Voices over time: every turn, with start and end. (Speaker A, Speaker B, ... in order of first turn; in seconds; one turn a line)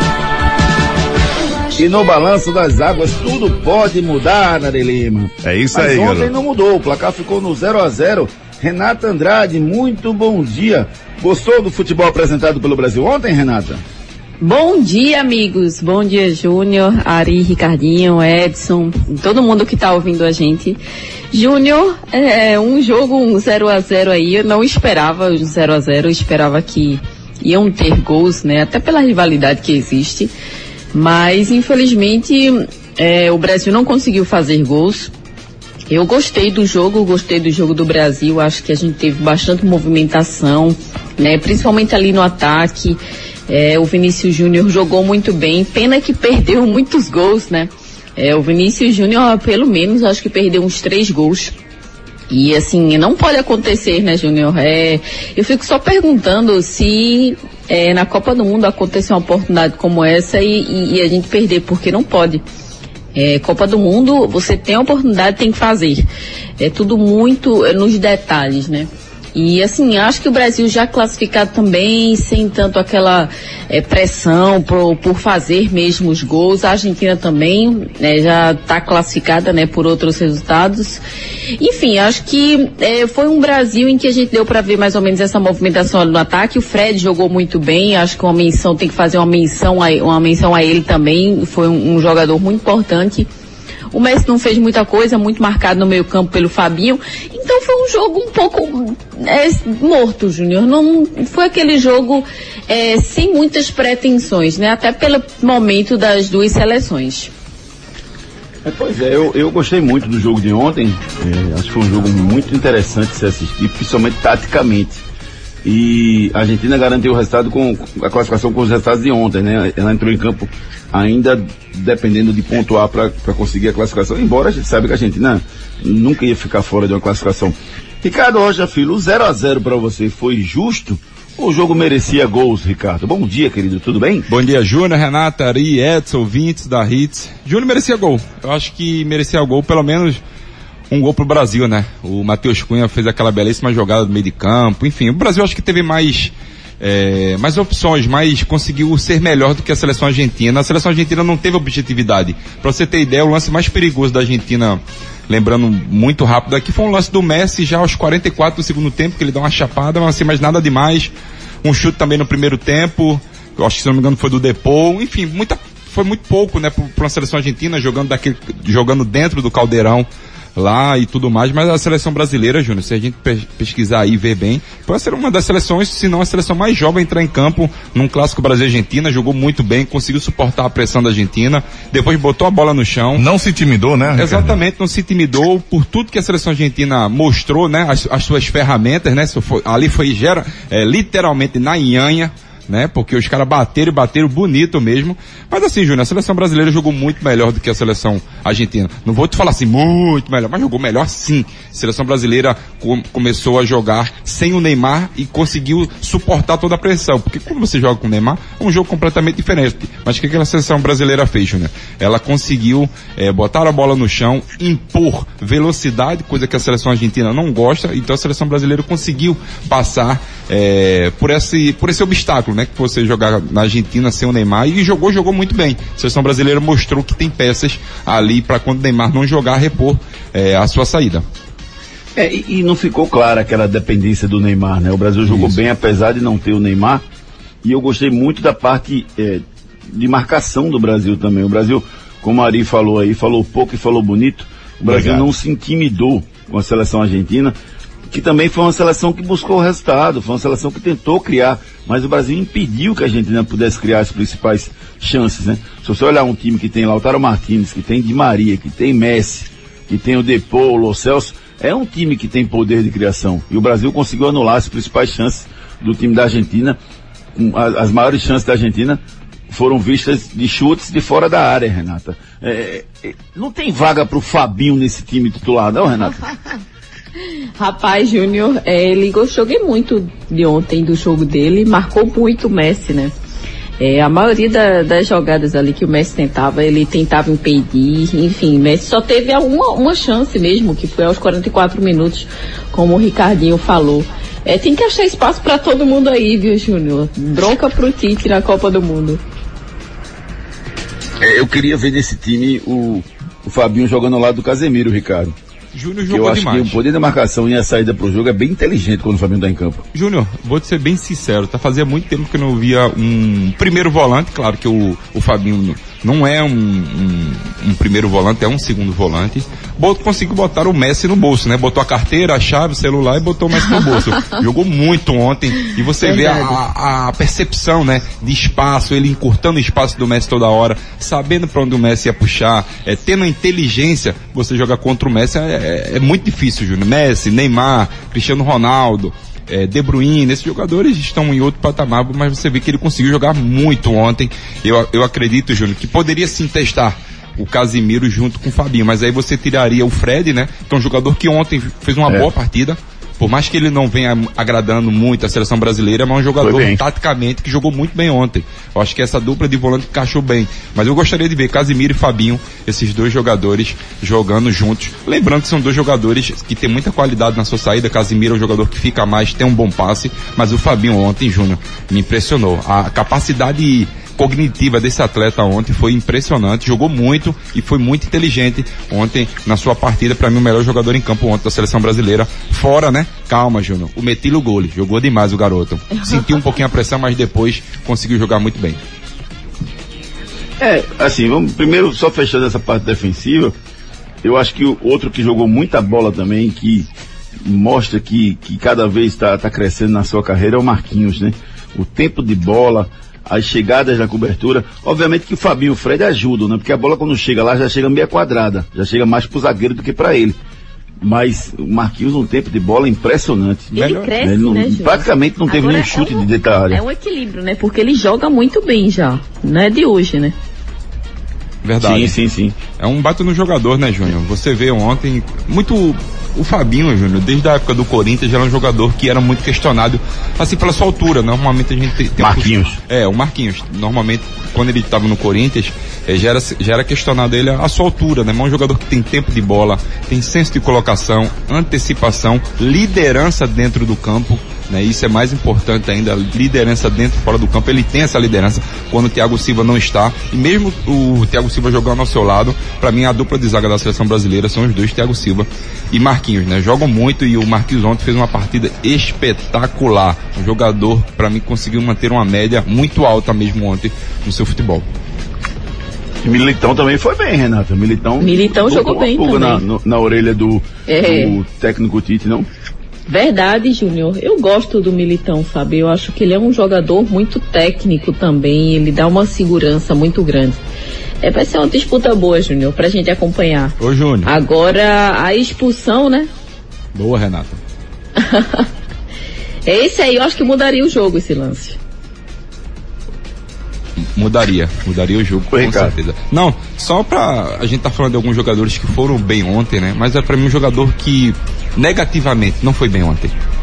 Speaker A: 1.8-13.8
Speaker B: 5.4-6.3
Speaker C: 14.4-20.8
Speaker C: 21.3-30.3
Speaker C: 30.9-35.1
Speaker C: 35.9-51.6
Speaker C: 52.3-62.4
Speaker C: 63.1-66.1
Speaker C: 66.6-81.0
Speaker C: 81.6-93.3
Speaker C: 93.9-107.3
Speaker A: 108.6-115.0
Speaker A: 115.6-134.3
Speaker D: 134.3-140.2
Speaker D: 140.9-161.1
Speaker D: 161.6-183.3
Speaker B: 183.2-184.6
Speaker D: 184.1-231.2
Speaker A: 232.2-237.0
Speaker B: 235.3-235.5
Speaker A: 237.6-247.6
Speaker B: 244.8-245.3
Speaker A: 248.1-266.8
Speaker A: 267.4-276.3
Speaker C: 277.2-283.1
Speaker C: 283.8-299.2
Speaker A: 301.2-305.4
Speaker D: 305.7-306.8
Speaker A: 306.1-309.8
Speaker D: 309.9-388.8
Speaker C: 326.0-326.6
Speaker A: 356.4-356.8
Speaker A: 390.6-393.6
Speaker A: 394.2-396.9
Speaker A: 397.4-410.4
Speaker A: 411.0-416.8
Speaker C: 413.7-420.4
Speaker D: 413.8-414.1
Speaker D: 421.6-422.2
Speaker A: 421.8-422.6
Speaker D: 422.8-464.9
Speaker A: 432.2-432.8
Speaker A: 466.2-472.5
Speaker C: 468.2-469.6
Speaker C: 470.9-471.4
Speaker C: 473.1-480.6
Speaker C: 481.2-486.3
Speaker D: 483.8-484.3
Speaker D: 486.9-487.6
Speaker C: 488.2-488.7
Speaker C: 489.7-491.8
Speaker D: 494.1-503.3
Speaker A: 495.5-495.9